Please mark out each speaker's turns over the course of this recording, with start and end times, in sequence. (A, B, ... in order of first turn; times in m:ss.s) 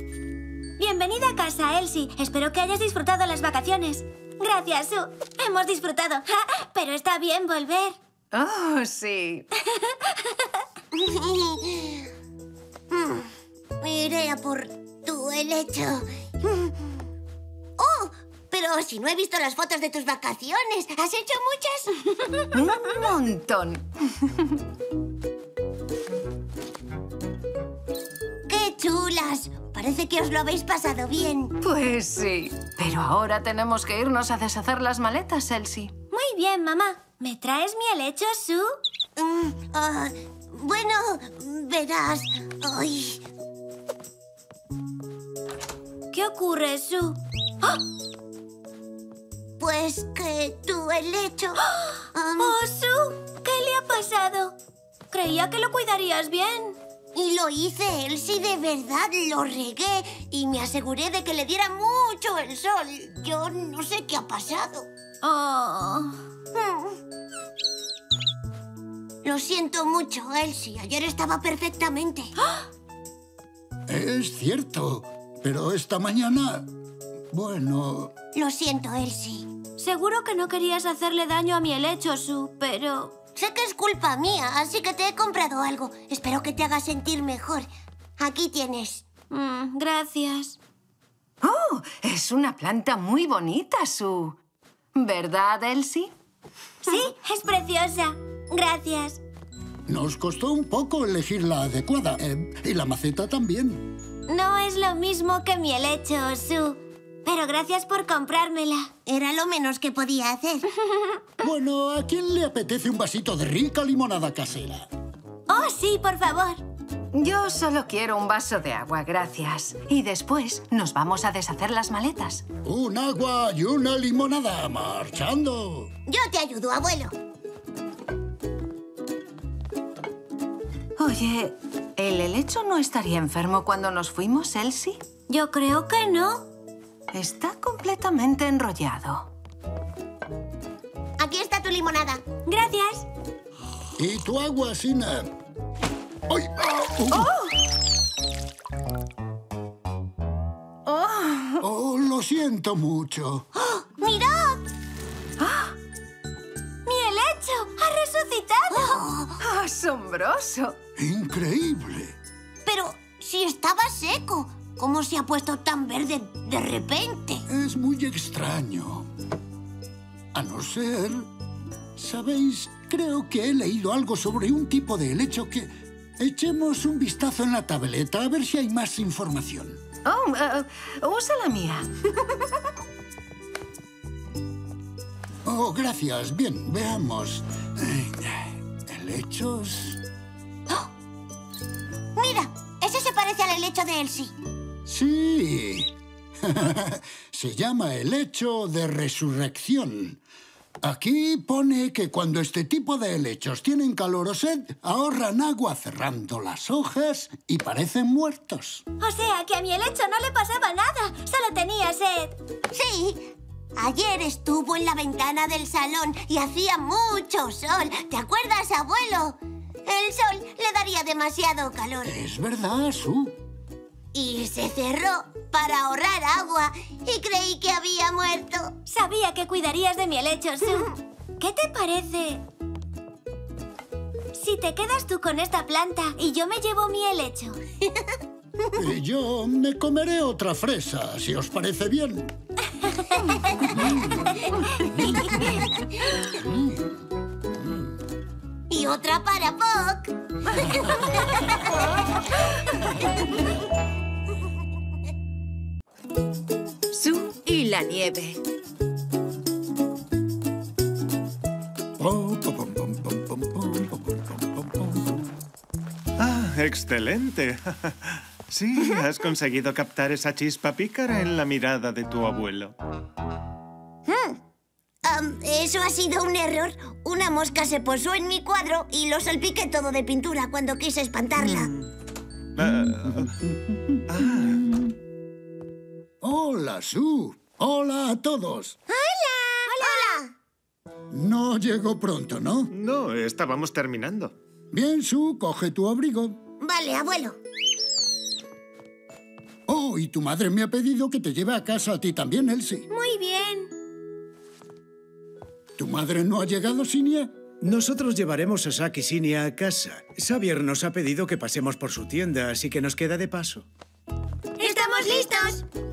0:00.8-0:08.0 A
0:08.3-0:09.5 B
0:09.7-0:10.4 A
0:10.9-0:12.1 C
0:12.9-0:13.3 C
0:13.8-0:16.9 C
0:17.8-0:22.5 C
0:22.5-0:24.6 B
0:28.5-0:31.6 C
0:31.6-0:35.9 B
0:36.1-0:38.8 A
0:39.2-0:43.2 C
0:46.1-0:47.8 A
0:49.6-0:51.6 C
0:51.8-0:54.6 A
0:52.1-0:52.6 C
0:55.1-0:56.8 A
0:57.2-1:04.9 C
1:05.2-1:06.2 A
1:06.5-1:07.0 C
1:09.2-1:12.3 C
1:13.9-1:16.7 D
1:17.3-1:18.1 D
1:18.4-1:19.5 C
1:19.8-1:23.2 A
1:23.4-1:27.7 C
1:28.2-1:29.0 C
1:29.3-1:30.6 A
1:31.4-1:34.4 B
1:35.0-1:36.1 B
1:36.8-1:39.2 A
1:39.9-1:43.9 D
1:44.3-1:48.9 A
1:49.1-1:50.7 C
1:51.4-1:54.9 D
1:55.5-1:56.6 A
1:57.1-2:02.4 B
2:02.6-2:05.9 D
2:06.1-2:07.1 C
2:11.0-2:15.0 B
2:15.3-2:16.5 A
2:17.1-2:19.3 B
2:21.2-2:22.2 C
2:22.5-2:23.1 A
2:24.0-2:25.3 D
2:26.3-2:27.3 D
2:27.1-2:27.5 B
2:30.9-2:31.6 B
2:31.6-2:33.5 D
2:33.6-2:34.6 C
2:35.4-2:35.7 B
2:36.9-2:38.8 A
2:38.7-2:39.4 C
2:39.4-2:40.8 B
2:41.0-2:42.2 D
2:42.6-2:47.4 C
2:47.5-2:49.1 D
2:50.3-2:51.3 D
2:52.0-2:59.8 D
3:00.0-3:01.9 B
3:05.4-3:10.0 D
3:12.2-3:14.3 C
3:14.9-3:20.2 D
3:20.8-3:28.8 D
3:29.0-3:32.4 A
3:32.7-3:42.2 C
3:42.0-3:43.4 D
3:44.1-3:48.8 C
3:48.9-3:52.4 A
3:54.3-3:57.6 A
3:58.8-4:02.3 D
4:03.7-4:04.3 D
4:04.9-4:05.7 C
4:05.0-4:05.4 D
4:06.3-4:07.0 D
4:07.5-4:07.9 D
4:08.7-4:11.7 C
4:16.9-4:18.4 B
4:22.0-4:25.3 D
4:26.2-4:32.7 E
4:34.1-4:34.4 C
4:35.0-4:41.7 C
4:41.4-4:41.9 E
4:42.6-4:43.3 E
4:42.6-4:44.9 D
4:44.1-4:44.6 E
4:46.2-4:48.8 D
4:48.9-4:50.3 C
4:49.7-4:50.2 A
4:51.1-4:52.7 D
4:52.7-4:54.3 E
4:54.7-4:56.4 D
4:56.6-4:57.4 C
4:59.7-5:02.9 D
5:02.9-5:03.7 A
5:05.8-5:07.3 D
5:07.6-5:13.7 F
5:14.6-5:15.6 A
5:14.7-5:15.5 C